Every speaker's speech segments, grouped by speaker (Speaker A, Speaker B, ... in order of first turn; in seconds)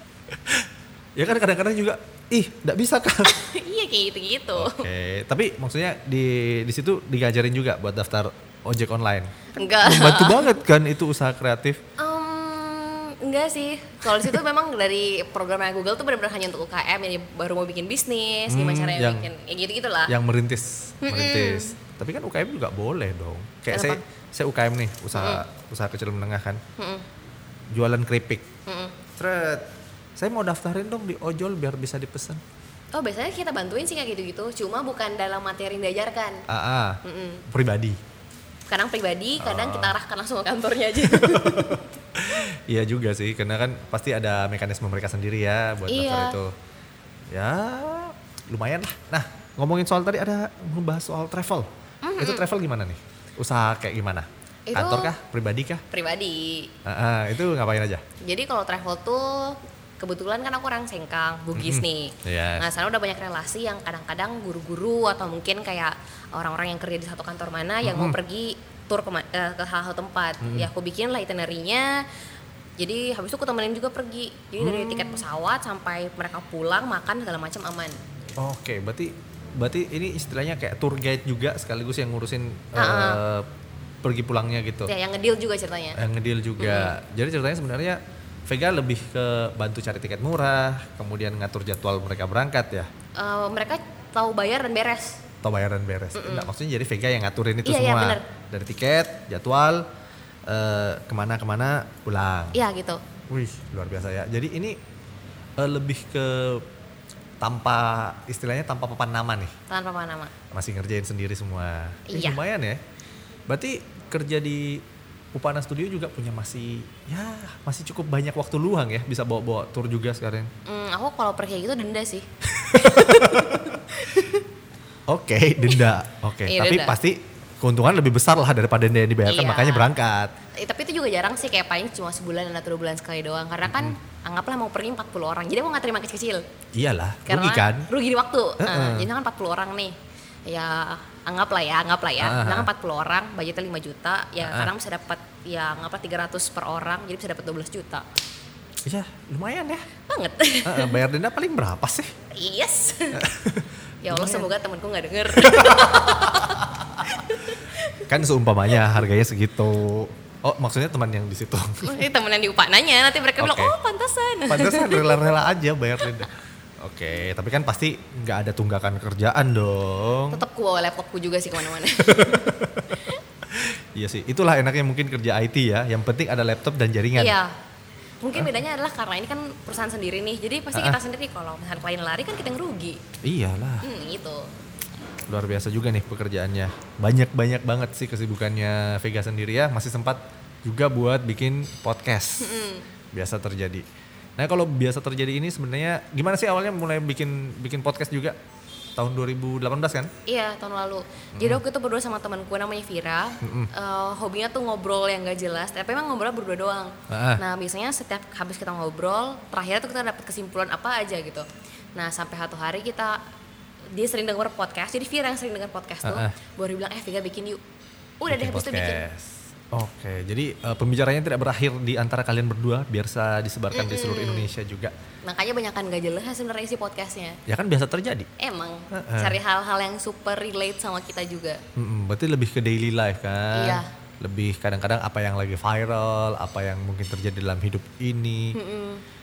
Speaker A: 0.3-3.4, 4.5-11.8, 18.5-19.3, 20.1-26.6, 27.7-28.5, 29.2-32.4, 36.5-38.0, 39.4-40.0, 41.0-46.5, 47.3-55.8, 56.9-58.0, 61.5-62.7, 67.8-68.2, 70.4-70.7, 74.6-75.2, 78.4-83.5, 84.0-84.9, 86.0-92.9, 95.4-99.9, 100.5-102.6, 103.3-104.8, 105.6-106.7, 107.4-109.5, 110.5-112.8, 113.5-120.5, 122.5-123.8, 125.1-130.3, 133.7-134.0, 136.7-137.9, 138.6-139.1, 142.2-142.7, 144.4-144.7, 148.9-149.9, 150.7-152.1, 153.1-154.5, 155.3-156.7, 158.1-162.1, 163.4-163.8, 164.5-170.4, 172.1-177.4, 180.7-181.0, 183.2-183.9, 185.3-192.6, 193.1-193.8, 194.4-198.4, 199.0-200.1, 201.3-201.6, 203.4-203.7, 207.1-207.4, 216.0-216.3, 218.3-224.9, 227.5-228.3, 228.9-229.4, 231.8-238.6
Speaker B: 3.2-4.9, 9.6-10.5, 12.0-20.1, 21.0-21.8, 23.7-24.0, 25.1-25.4, 26.8-27.0, 28.7-29.0, 32.9-36.5, 37.0-37.4, 38.7-41.9, 45.9-46.4, 52.0-52.5, 54.7-55.1, 55.9-56.7, 58.2-72.0, 72.8-78.0, 82.7-83.2, 84.9-86.0, 86.6-87.0, 93.2-95.2, 96.2-96.5, 97.7-98.2, 102.5-103.0, 109.7-110.3, 112.1-112.4, 120.7-124.4, 126.5-127.0, 129.2-129.9, 130.5-136.4, 137.3-148.1, 150.1-151.0, 152.3-153.2, 154.0-158.1, 161.8-165.3, 170.3-173.2, 177.2-177.5, 178.2-183.0, 183.8-184.5, 192.4-192.9, 200.3-213.2, 213.9-217.6, 218.2-219.0, 223.7-224.5, 225.2-227.4, 228.4-231.6, 233.5-233.9, 238.5-239.0